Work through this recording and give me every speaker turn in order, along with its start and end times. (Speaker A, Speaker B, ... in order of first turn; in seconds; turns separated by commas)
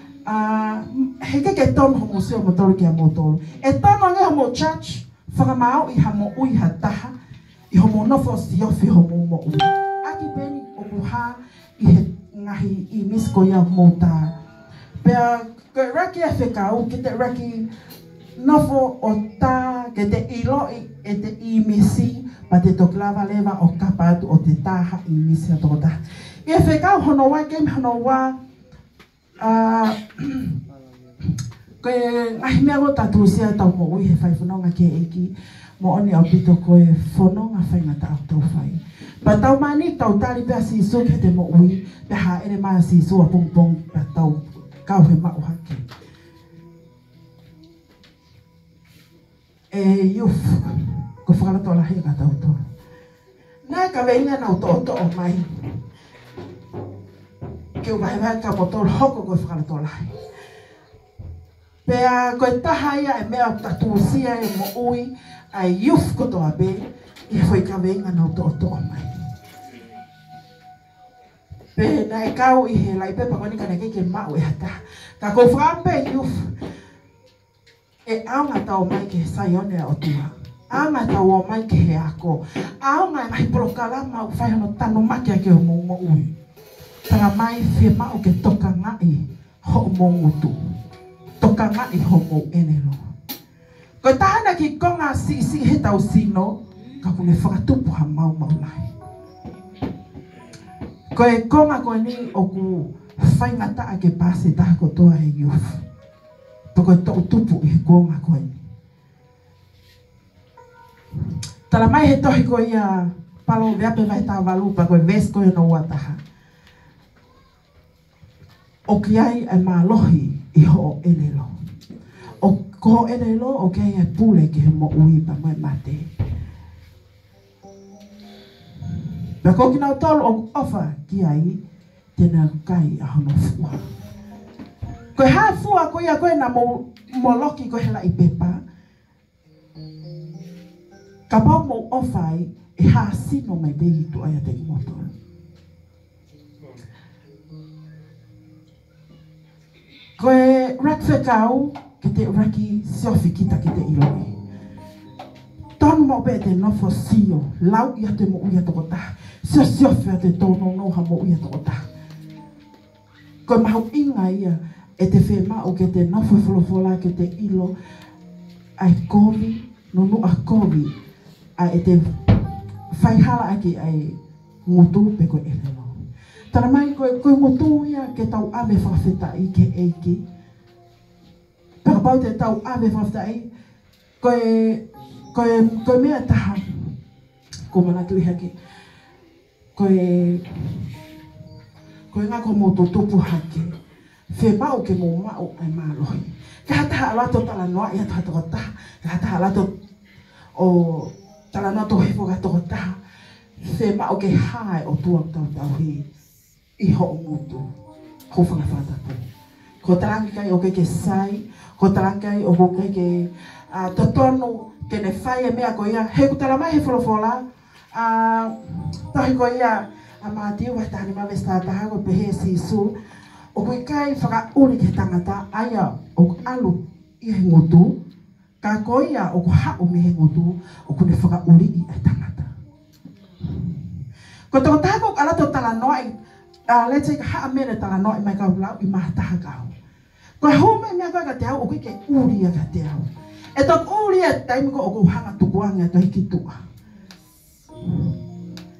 Speaker A: 0.2-7.2, Speaker A: 7.7-14.3, Speaker A: 15.0-17.7, Speaker A: 18.4-28.4, Speaker A: 29.4-30.6, Speaker A: 31.8-45.8, Speaker A: 49.7-52.6, Speaker A: 53.7-55.8, Speaker A: 57.8-60.2, Speaker A: 61.9-69.1, Speaker A: 71.8-76.5, Speaker A: 78.1-86.3, Speaker A: 87.1-90.5, Speaker A: 91.4-93.0, Speaker A: 94.0-98.9, Speaker A: 101.1-105.8, Speaker A: 106.7-108.6, Speaker A: 111.7-116.2, Speaker A: 118.9-121.5, Speaker A: 122.4-126.1, Speaker A: 129.4-131.6, Speaker A: 132.2-133.8, Speaker A: 135.2-138.6, Speaker A: 141.3-145.1, Speaker A: 150.2-154.3, Speaker A: 155.8-161.8, Speaker A: 163.5-167.7, Speaker A: 168.8-170.9, Speaker A: 171.6-172.2, Speaker A: 172.9-175.9, Speaker A: 176.5-180.2, Speaker A: 181.8-183.5, Speaker A: 184.2-187.0, Speaker A: 187.7-188.5, Speaker A: 189.8-190.9, Speaker A: 192.1-193.7, Speaker A: 194.3-199.7, Speaker A: 200.6-203.0, Speaker A: 203.6-206.1, Speaker A: 206.8-207.6, Speaker A: 208.3-209.2, Speaker A: 209.8-222.9, Speaker A: 223.6-228.0, Speaker A: 228.6-232.5, Speaker A: 233.5-233.7, Speaker A: 234.5-236.1, Speaker A: 236.7-239.7, Speaker A: 240.4-246.5